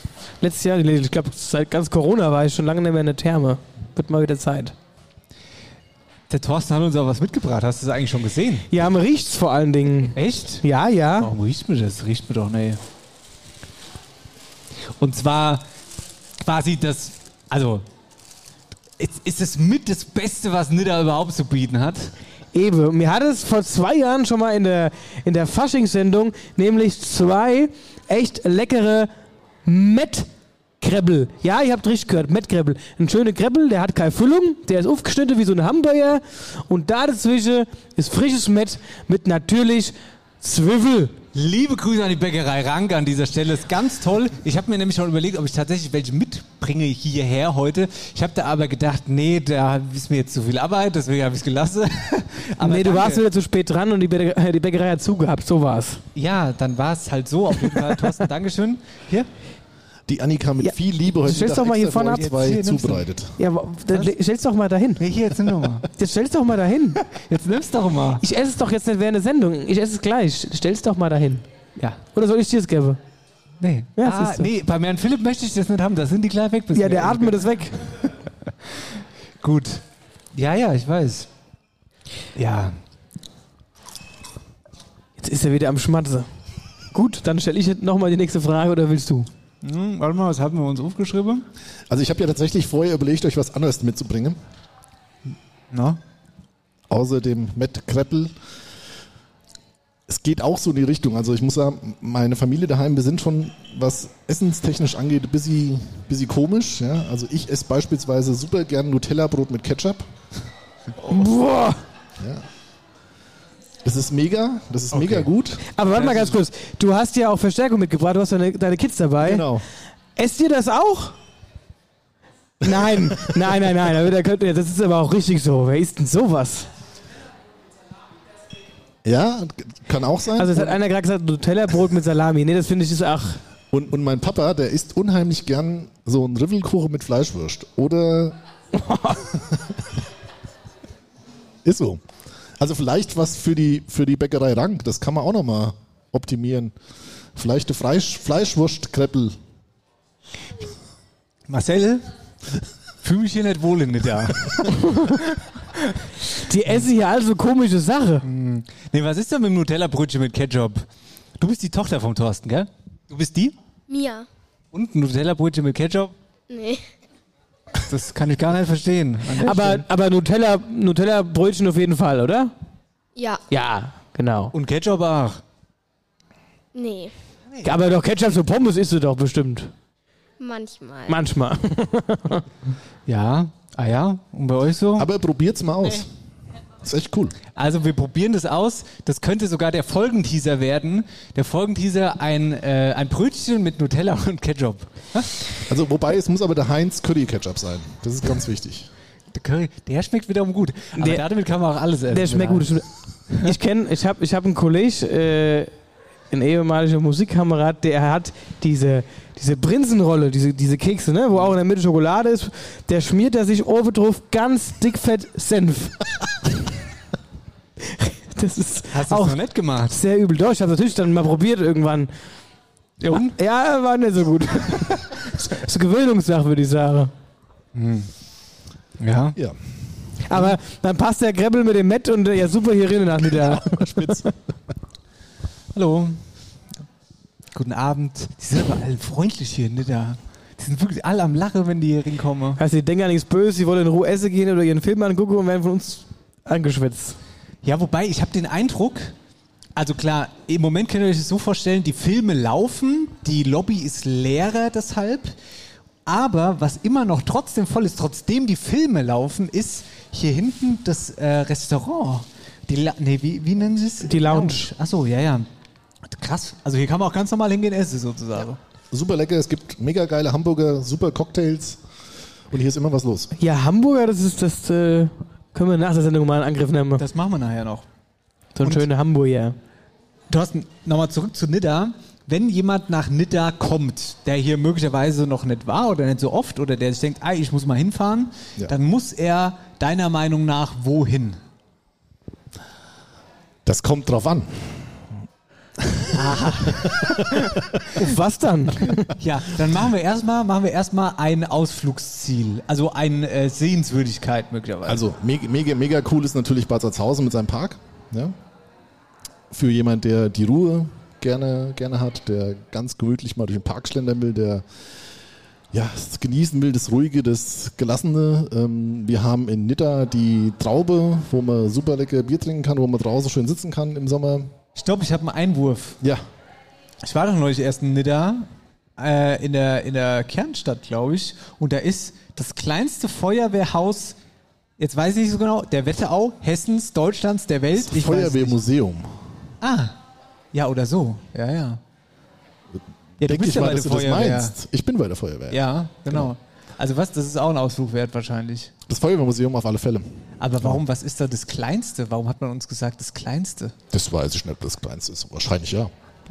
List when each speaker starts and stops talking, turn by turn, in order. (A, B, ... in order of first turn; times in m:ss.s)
0:00.4-0:04.8 A
0:06.3-0:08.7 B
0:08.7-0:11.3 A
0:10.2-0:10.6 B
0:11.2-0:12.8 B
0:15.0-0:15.6 B
0:16.4-0:17.8 B
0:19.0-0:22.1 B
0:22.5-0:29.1 A
0:29.7-0:30.3 A
0:30.8-0:41.2 A
0:41.3-0:53.2 B
0:52.6-0:56.0 A
0:56.2-0:59.3 B
1:00.1-1:03.4 C
1:00.6-1:02.2 A
1:02.1-1:03.0 B
1:03.4-1:05.0 A
1:05.0-1:05.9 B
1:06.0-1:07.0 A
1:07.1-1:08.2 B
1:08.2-1:11.4 A
1:12.2-1:13.0 A
1:13.6-1:18.8 B
1:14.0-1:14.5 A
1:16.7-1:17.7 A
1:19.4-1:19.8 B
1:20.4-1:21.3 B
1:22.4-1:22.8 B
1:25.2-1:26.3 A
1:26.9-1:29.3 A
1:29.6-1:31.5 B
1:31.9-1:34.4 C
1:35.7-1:36.0 B
1:36.9-1:38.3 C
1:40.1-1:50.0 C
1:51.1-1:51.8 A
1:52.2-1:52.4 C
1:53.8-1:55.7 C
1:55.0-1:55.3 B
1:55.7-1:59.4 A
1:55.9-1:56.3 B
1:59.2-1:59.6 C
2:00.2-2:01.2 A
2:02.6-2:06.7 A
2:02.8-2:03.3 C
2:09.0-2:10.8 C
2:10.4-2:13.4 A
2:13.7-2:18.4 C
2:18.8-2:19.2 A
2:21.6-2:22.0 C
2:22.6-2:26.7 C
2:27.4-2:29.4 C
2:31.5-2:32.1 B
2:33.0-2:36.0 B
2:36.5-2:38.2 A
2:38.2-2:40.9 B
2:41.4-2:43.5 B
2:43.9-2:44.3 D
2:44.7-2:46.1 B
2:46.5-2:46.8 D
2:47.9-2:49.8 B
2:49.4-2:52.5 A
2:53.2-2:53.4 D
2:53.5-2:54.5 A
2:54.5-2:55.4 B
2:56.7-2:57.1 D
2:57.6-2:59.7 A
3:00.4-3:01.2 D
3:01.1-3:02.4 A
3:03.1-3:05.1 B
3:05.0-3:06.1 C
3:06.8-3:07.4 C
3:07.6-3:15.4 B
3:15.7-3:18.9 C
3:19.3-3:22.7 B
3:22.1-3:22.9 A
3:23.4-3:25.7 A
3:26.3-3:36.0 A
3:37.9-3:39.4 A
3:38.9-3:40.0 B
3:39.9-3:42.1 A
3:43.0-3:43.4 B
3:43.2-3:47.1 A
3:47.8-3:48.1 B
3:49.0-3:49.4 B
3:50.3-3:54.3 A
3:53.4-3:54.3 C
3:55.7-3:56.2 B
3:57.5-4:02.6 B
4:02.6-4:07.2 A
4:07.6-4:09.1 B
4:09.8-4:15.3 B
4:16.1-4:25.5 B
4:24.1-4:24.7 A
4:26.1-4:28.6 B
4:28.9-4:31.8 C
4:32.5-4:33.3 C
4:33.4-4:37.0 A
4:37.0-4:37.8 B
4:38.6-4:39.6 A
4:40.3-4:51.4 B
4:53.7-4:55.0 C
4:55.9-4:57.1 C
4:56.1-4:57.2 B
4:58.0-4:59.1 A
4:59.1-5:05.0 B
5:04.9-5:08.4 C
5:09.5-5:14.6 C
5:15.7-5:24.5 C
5:24.8-5:26.0 B
5:27.0-5:34.2 B
5:34.8-5:38.6 B
5:37.8-5:39.1 C
5:39.6-5:40.0 B
5:40.5-5:41.8 B
5:43.2-5:46.3 C
5:43.2-5:44.6 B
5:45.5-5:48.7 B
5:48.9-5:50.8 C
5:50.4-5:53.8 B
5:53.9-5:55.9 C